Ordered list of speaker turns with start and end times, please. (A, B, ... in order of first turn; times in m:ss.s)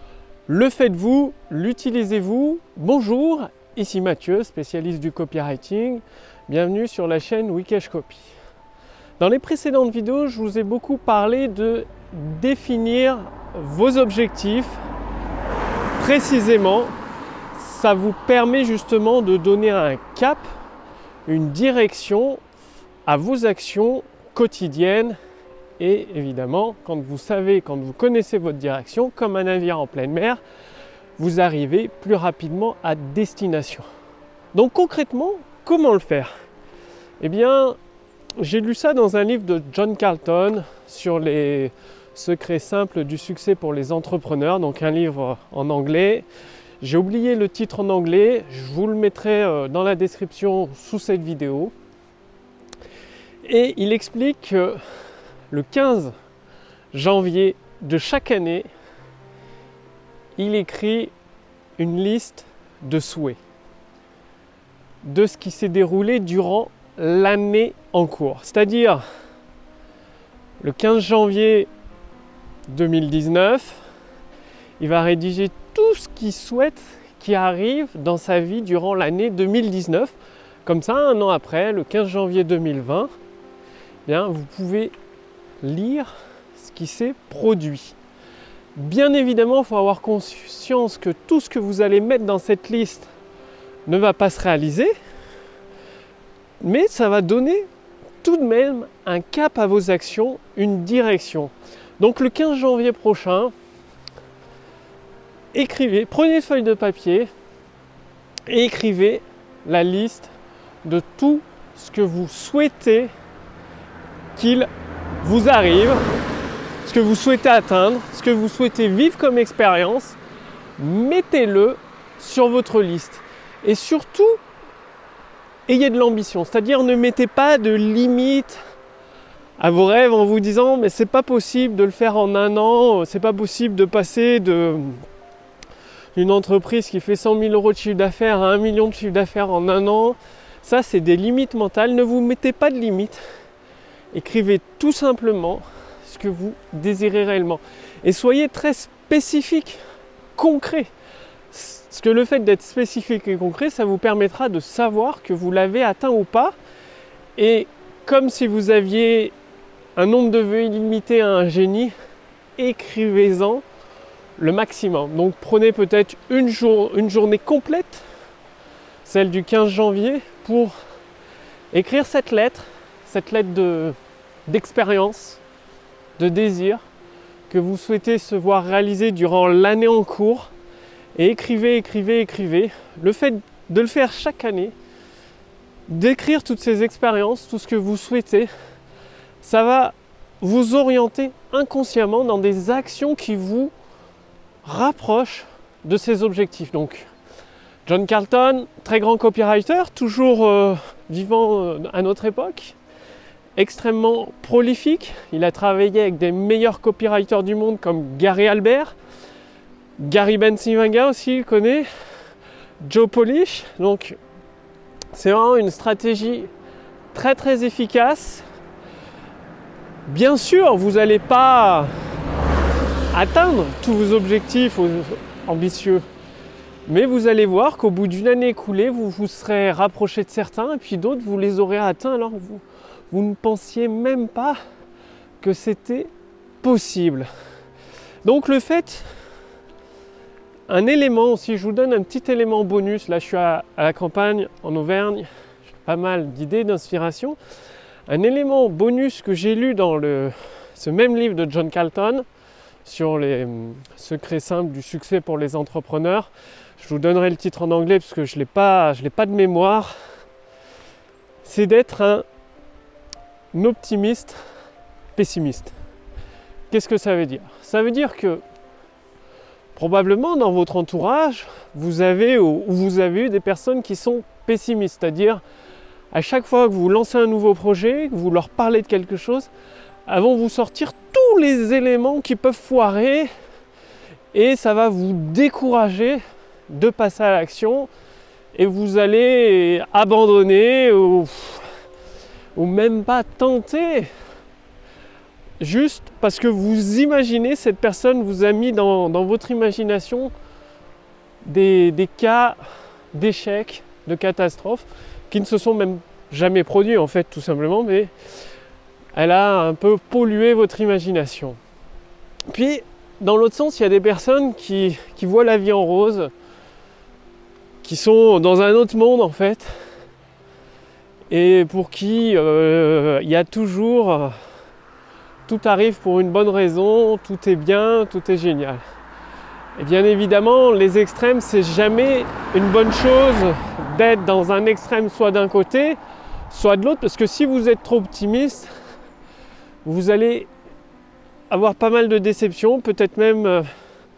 0:00.5-0:08.3 A
0:09.2-0:14.8 A
0:16.0-0:16.9 A
0:17.5-0:20.5 A
0:21.2-0:22.4 A
0:23.0-0:25.2 A
0:25.8-0:30.4 A
0:31.2-0:33.8 A
0:34.5-0:36.3 A
0:37.2-0:37.8 A
0:38.4-0:46.2 A
0:46.8-0:51.7 A
0:53.4-0:54.8 A
0:55.5-0:56.1 A
0:56.9-0:58.7 A
1:00.4-1:01.1 A
1:01.8-1:03.4 A
1:05.0-1:09.0 A
1:10.6-1:11.7 A
1:12.7-1:13.8 A
1:14.8-1:23.1 A
1:24.0-1:24.9 A
1:25.6-1:28.0 A
1:28.7-1:33.1 A
1:33.8-1:34.9 A
1:36.6-1:37.7 A
1:38.2-1:43.5 A
1:45.5-1:47.3 A
1:48.5-1:50.3 A
1:50.8-1:53.1 A
1:54.3-1:54.7 A
1:55.2-1:56.0 A
1:56.8-2:00.2 A
2:00.8-2:04.4 A
2:05.7-2:08.6 A
2:09.6-2:15.0 A
2:16.1-2:23.2 A
2:24.1-2:29.8 A
2:30.3-2:30.9 A
2:31.5-2:36.6 A
2:37.4-2:39.3 A
2:40.0-2:41.9 A
2:42.6-2:43.6 A
2:44.4-2:48.0 A
2:49.0-2:50.7 A
2:51.7-2:55.4 A
2:56.2-2:56.8 A
2:57.5-3:00.5 A
3:01.1-3:04.7 A
3:05.9-3:08.5 A
3:09.4-3:13.7 A
3:14.6-3:17.1 A
3:17.8-3:22.8 A
3:23.6-3:29.0 A
3:30.0-3:31.9 A
3:32.8-3:34.2 A
3:35.1-3:36.5 A
3:37.1-3:38.4 A
3:40.1-3:41.9 A
3:43.1-3:46.0 A
3:46.8-3:54.6 A
3:55.4-3:57.3 A
3:58.2-3:59.1 A
4:00.7-4:07.4 A
4:08.1-4:12.2 A
4:12.8-4:19.9 A
4:21.4-4:22.2 A
4:23.5-4:24.4 A
4:25.1-4:25.7 A
4:26.7-4:28.4 A
4:29.7-4:35.4 A
4:36.1-4:39.5 A
4:40.1-4:43.3 A
4:44.3-4:47.9 A
4:48.5-4:51.7 A
4:52.6-4:54.1 A
4:55.6-5:00.3 A
5:01.4-5:02.6 A
5:03.1-5:08.1 A
5:09.1-5:11.6 A
5:12.5-5:16.3 A
5:17.8-5:19.7 A
5:21.3-5:24.4 A
5:25.5-5:28.8 A
5:29.8-5:36.0 A
5:36.5-5:38.7 A
5:39.8-5:40.5 A
5:41.5-5:43.7 A